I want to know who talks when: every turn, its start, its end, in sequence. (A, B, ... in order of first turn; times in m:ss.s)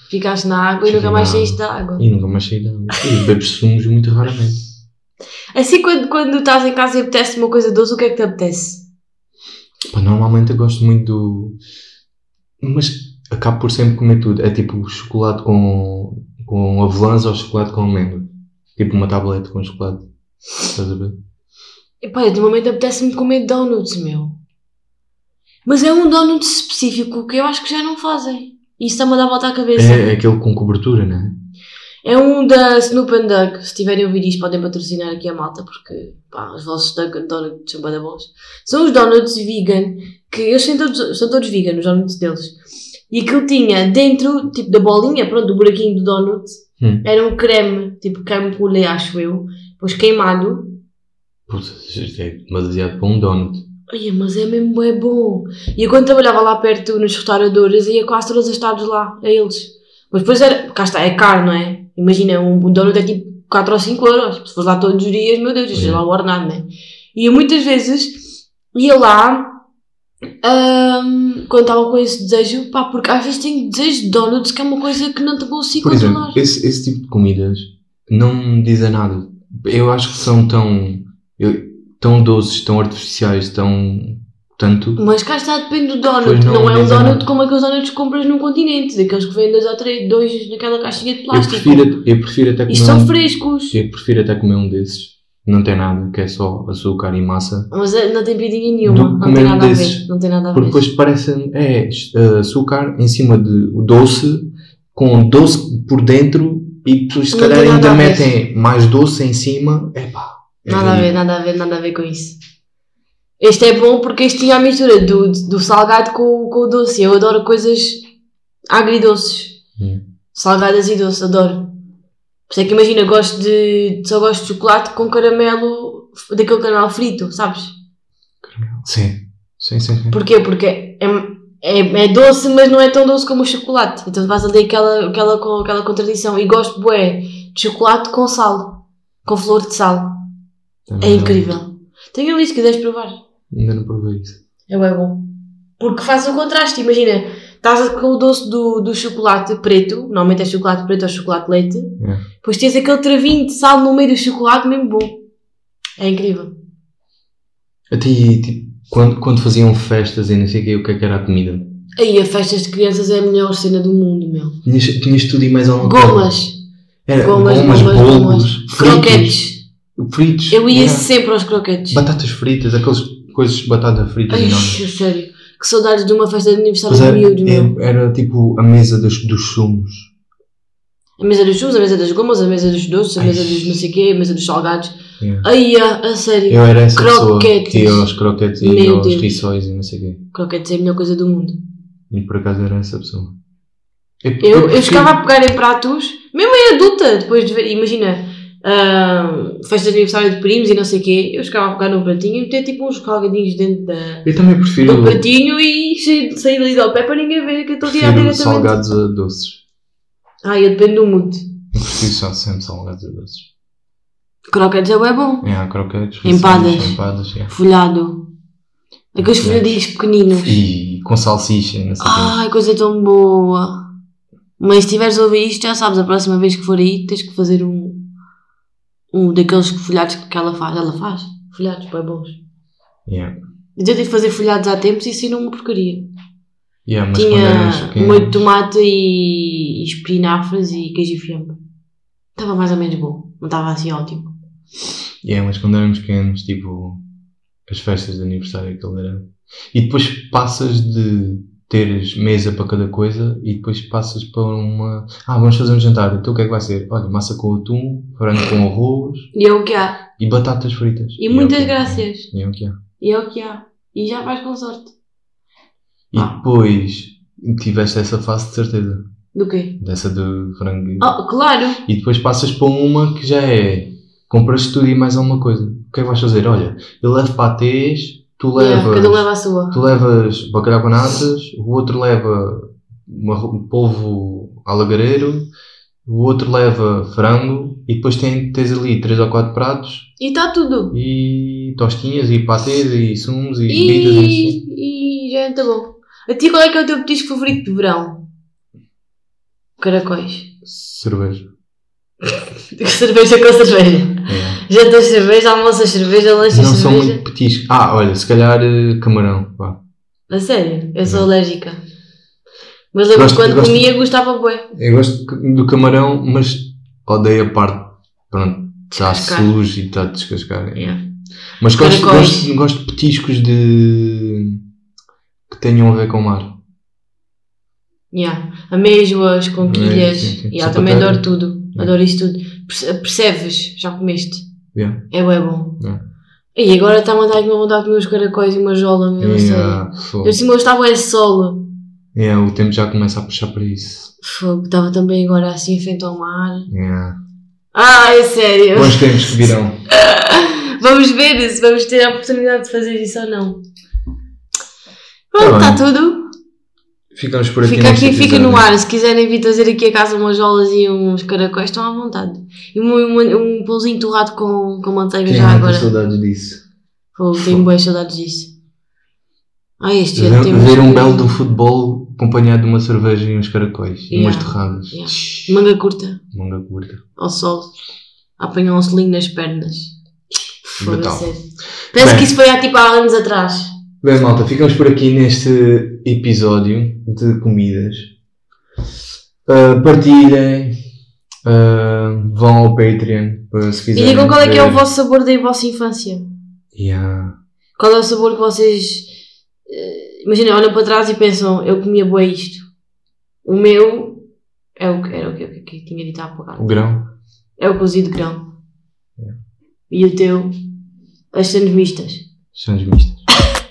0:00.1-0:02.0 A
0:00.8-0:04.6 B
0:05.6-0:08.8 A
0:09.9-0:11.6 B
0:12.6-0:20.1 B
0:20.7-0:21.2 B
0:22.0-0:24.4 A
0:25.7-0:30.1 A
0:29.8-0:31.4 B
0:32.0-0:42.6 A
0:43.1-0:50.8 A
0:46.8-0:47.0 B
0:51.5-0:53.6 B
0:53.9-1:09.5 A
1:05.7-1:06.0 B
1:10.4-1:16.4 A
1:15.8-1:25.0 B
1:25.0-1:32.0 A
1:26.2-1:27.3 B
1:31.3-1:33.1 B
1:32.7-1:33.8 A
1:33.7-1:37.7 B
1:37.7-1:40.8 A
1:38.8-1:51.2 B
1:47.3-1:48.3 A
1:50.7-1:52.4 A
1:53.4-1:58.0 A
1:58.7-1:59.6 A
1:59.8-2:00.1 B
2:00.3-2:01.7 A
2:02.5-2:07.7 A
2:08.4-2:10.2 B
2:10.1-2:20.2 A
2:20.9-2:21.6 B
2:21.0-2:23.2 A
2:23.5-2:24.4 B
2:24.7-2:35.2 A
2:32.0-2:32.2 B
2:36.0-2:36.5 A
2:37.9-2:41.8 B
2:42.0-2:44.6 A
2:44.6-2:46.3 B
2:45.8-2:46.6 A
2:47.1-2:49.4 B
2:47.2-2:49.6 A
2:50.0-2:51.1 B
2:50.5-2:52.0 A
2:51.9-2:54.8 B
2:54.3-2:57.7 A
2:56.9-3:00.1 B
3:01.2-3:09.3 A
3:03.2-3:03.8 B
3:05.2-3:05.5 B
3:06.5-3:10.2 B
3:10.3-3:11.6 A
3:12.1-3:13.3 B
3:14.2-3:15.1 B
3:14.4-3:24.3 A
3:24.2-3:25.2 B
3:24.8-3:28.8 A
3:27.8-3:29.6 B
3:30.4-3:31.4 A
3:31.7-3:33.5 B
3:34.5-3:35.5 A
3:35.4-3:37.5 B
3:36.2-3:38.3 A
3:39.2-3:40.6 A
3:39.2-3:39.8 B
3:40.3-3:42.4 B
3:42.0-3:43.8 A
3:44.6-3:48.0 A
3:49.1-3:52.4 A
3:53.1-3:53.4 B
3:53.8-3:56.1 A
3:56.9-3:58.4 B
3:57.1-4:01.6 A
4:02.4-4:04.3 A
4:05.2-4:07.0 B
4:07.7-4:19.3 B
4:19.3-4:20.1 A
4:20.2-4:22.8 B
4:21.2-4:22.3 A
4:23.0-4:24.9 A
4:26.1-4:29.0 B
4:29.4-4:29.8 A
4:29.8-4:31.2 B
4:31.0-4:31.8 A
4:31.9-4:45.5 B
4:38.6-4:39.9 A
4:46.1-4:50.1 B
4:50.2-4:51.0 A
4:50.9-4:54.6 B
4:53.7-4:58.2 A
4:59.8-5:00.5 A
5:00.6-5:01.4 B
5:02.2-5:07.2 A
5:04.3-5:04.6 B
5:06.5-5:09.8 B
5:10.3-5:11.8 A
5:12.9-5:14.7 A
5:13.1-5:13.9 B
5:14.7-5:21.0 B
5:18.9-5:19.5 A
5:20.8-5:21.0 A
5:21.6-5:24.6 B
5:21.8-5:22.5 A
5:25.5-5:26.6 B
5:28.1-5:34.4 A
5:29.6-5:31.2 B
5:34.8-5:35.1 B
5:35.1-5:35.8 A
5:36.6-5:41.7 A
5:39.2-5:40.4 B
5:42.1-5:44.1 B
5:44.2-5:46.7 A
5:46.7-5:47.2 B
5:47.7-5:53.6 A
5:48.7-5:49.8 B
5:55.3-5:56.2 A
5:55.4-5:55.8 B
5:57.1-5:58.7 B
5:57.6-6:05.9 A
6:05.3-6:06.6 B
6:07.2-6:08.5 A
6:07.3-6:07.7 B
6:09.8-6:11.3 A
6:10.2-6:15.6 B
6:14.1-6:16.2 A
6:16.3-6:17.0 B
6:17.2-6:17.8 A
6:18.4-6:20.0 A
6:20.6-6:23.7 A
6:20.8-6:21.3 B
6:21.9-6:22.3 B
6:24.0-6:28.1 B
6:29.5-6:30.8 B
6:31.4-6:34.8 B
6:34.0-6:36.2 A
6:36.8-6:37.4 B
6:37.8-6:39.1 A
6:39.7-6:42.6 A
6:43.4-6:44.3 A
6:44.8-6:46.8 A
6:46.6-6:47.1 B
6:47.6-6:48.5 A
6:49.9-6:50.5 A
6:51.3-6:52.3 A
6:52.5-6:53.2 B